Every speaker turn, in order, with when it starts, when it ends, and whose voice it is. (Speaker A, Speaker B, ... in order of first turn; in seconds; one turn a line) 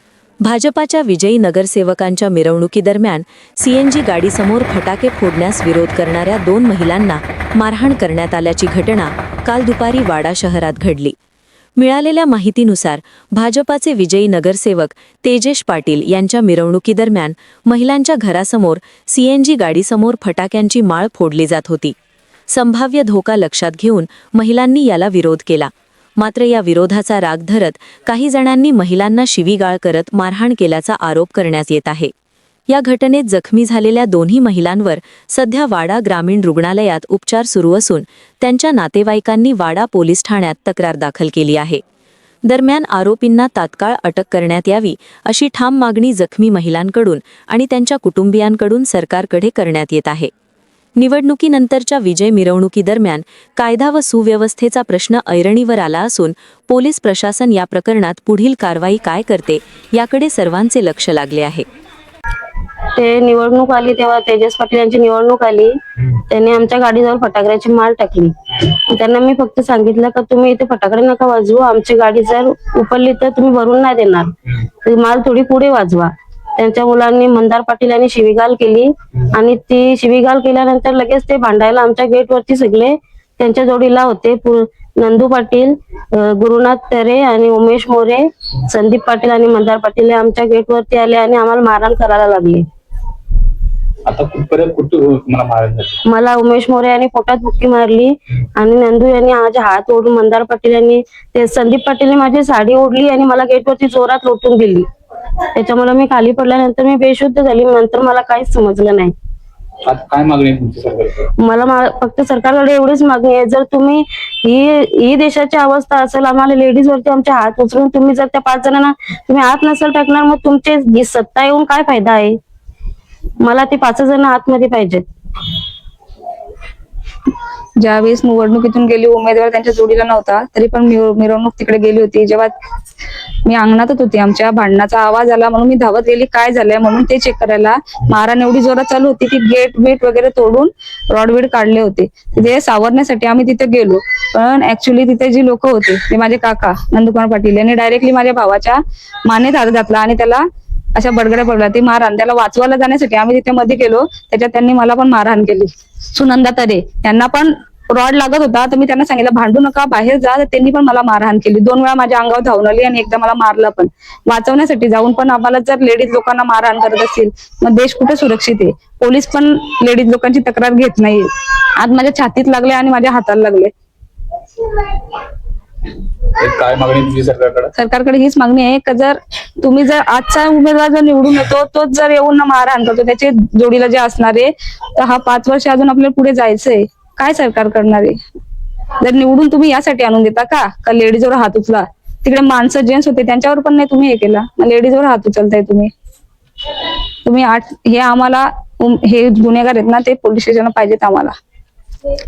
Speaker A: 0.4-11.2
Speaker A: 11.8-21.9
Speaker A: 22.5-32.1
Speaker A: 32.7-41.8
Speaker A: 42.5-50.3
Speaker A: 51.0-61.7
Speaker B: 63.0-74.3
Speaker B: 74.8-92.7
Speaker C: 94.1-96.0
Speaker B: 96.1-104.9
Speaker B: 105.5-109.1
Speaker C: 109.8-111.3
Speaker B: 111.4-122.4
Speaker B: 123.4-125.0
Speaker D: 127.8-132.5
Speaker D: 133.5-150.4
Speaker D: 150.9-173.7
Speaker C: 176.4-177.7
Speaker D: 177.8-188.2
Speaker D: 189.0-195.9
Speaker D: 197.2-201.3